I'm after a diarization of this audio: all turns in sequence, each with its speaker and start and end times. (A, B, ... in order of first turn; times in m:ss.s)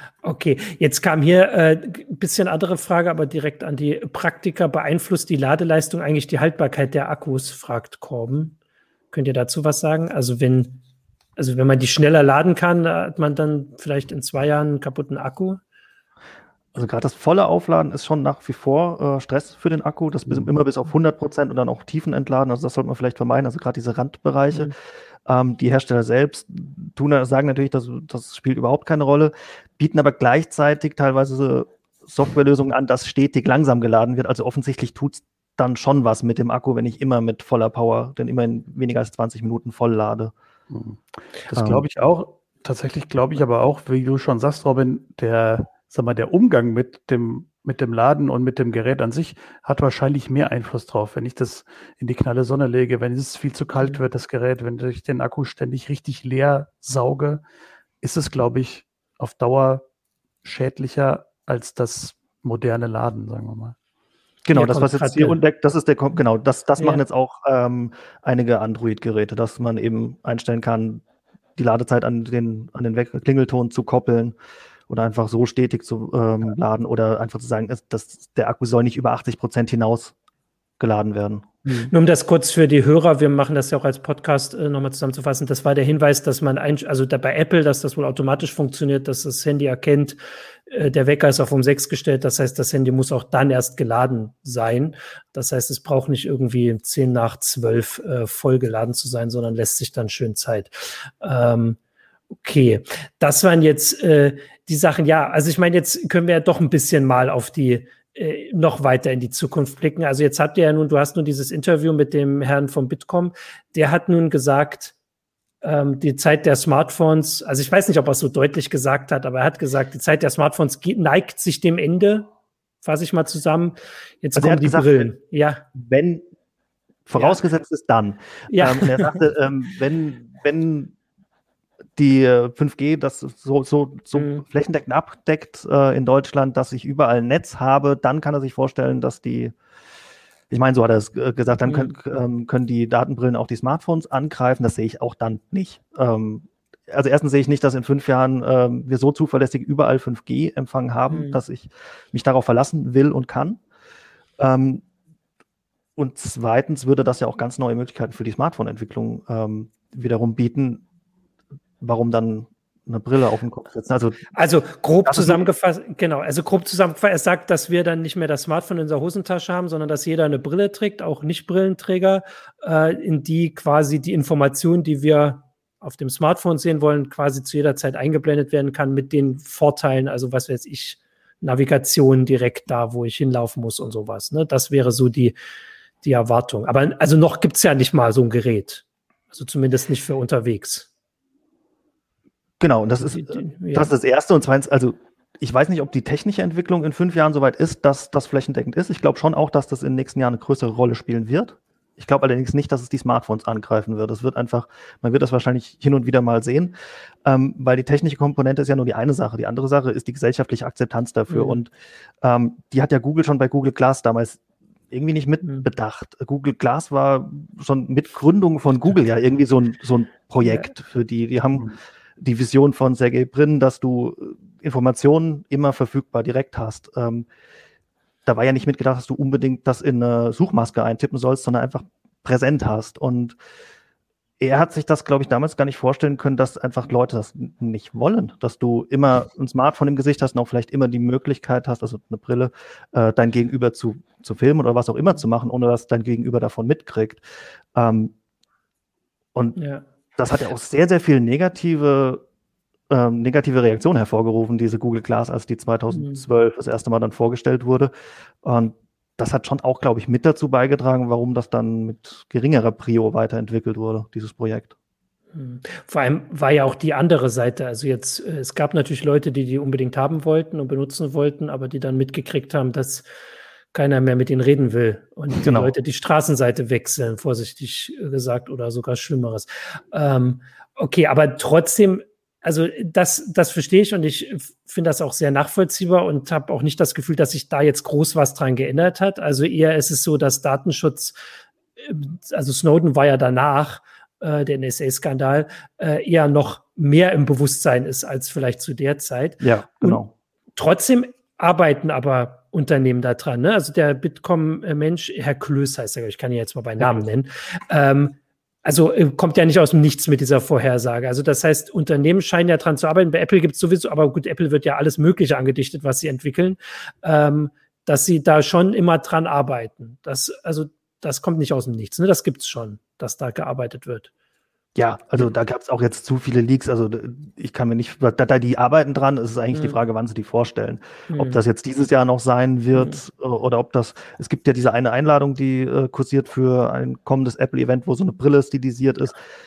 0:00.2-0:08.6 A
0:09.1-0:10.8 A
0:11.4-0:15.6 A
0:16.8-0:24.7 B
0:25.3-0:40.3 B
0:40.7-0:57.4 C
0:41.5-0:41.9 B
0:58.0-0:59.8 C
1:00.4-1:03.8 C
1:04.4-1:11.0 B
1:04.5-1:05.4 A
1:11.6-1:14.4 B
1:14.9-1:20.1 B
1:20.8-1:21.5 B
1:21.6-1:21.9 C
1:21.9-1:30.2 A
1:30.7-1:41.8 A
1:42.4-1:54.9 A
1:55.6-2:02.3 A
2:02.8-2:05.6 A
2:04.4-2:05.1 B
2:05.7-2:06.3 B
2:07.1-2:10.9 B
2:08.5-2:09.2 A
2:12.0-2:19.5 B
2:14.1-2:14.4 A
2:20.5-2:33.6 B
2:21.7-2:21.9 A
2:31.1-2:31.4 A
2:34.4-2:34.8 B
2:36.0-2:40.8 B
2:41.8-2:44.3 B
2:44.3-3:05.4 A
2:45.0-2:45.5 B
3:06.0-3:10.9 A
3:12.6-3:31.7 B
3:13.1-3:13.9 A
3:31.3-3:31.6 A
3:32.2-3:34.4 B
3:34.9-3:47.3 B
3:40.4-3:40.7 A
3:48.3-3:53.4 B
3:54.4-4:07.2 B
4:07.8-4:08.1 B
4:09.6-4:09.8 A
4:10.2-4:12.2 B
4:12.9-4:17.9 B
4:15.9-4:16.2 A
4:18.4-4:24.7 B
4:25.3-4:33.0 A
4:33.7-4:51.2 A
4:35.4-4:35.7 B
4:51.8-5:00.0 A
4:59.4-5:00.1 B
5:00.6-5:24.1 A
5:24.8-5:39.2 B
5:31.1-5:31.4 A